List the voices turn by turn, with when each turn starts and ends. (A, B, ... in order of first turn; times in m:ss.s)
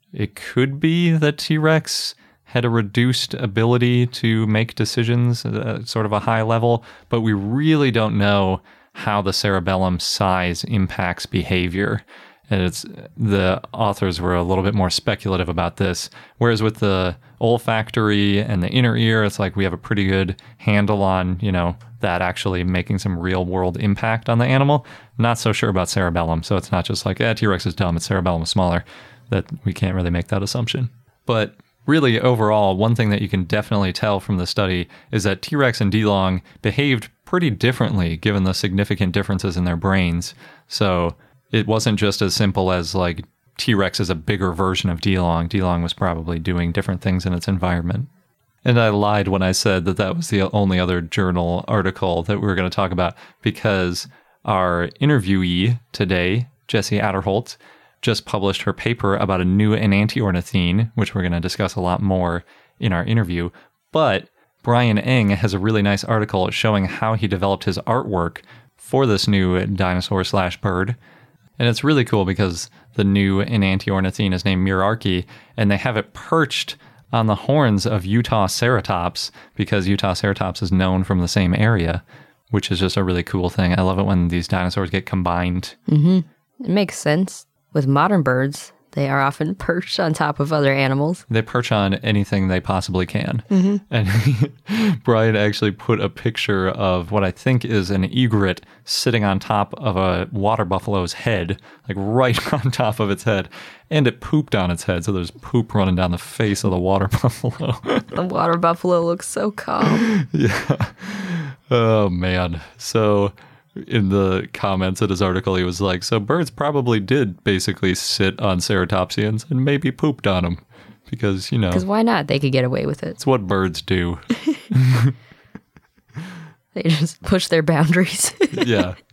0:00.1-0:48.1 A
0:48.6-1:11.0 A
1:11.6-1:25.8 A
1:25.9-1:31.2 B
1:31.3-1:48.1 A
1:33.5-1:33.8 B
1:48.1-1:50.1 B
1:50.1-2:01.8 A
2:01.7-2:03.2 B
2:03.2-2:05.2 A
2:06.8-2:08.8 B
2:08.5-2:09.0 A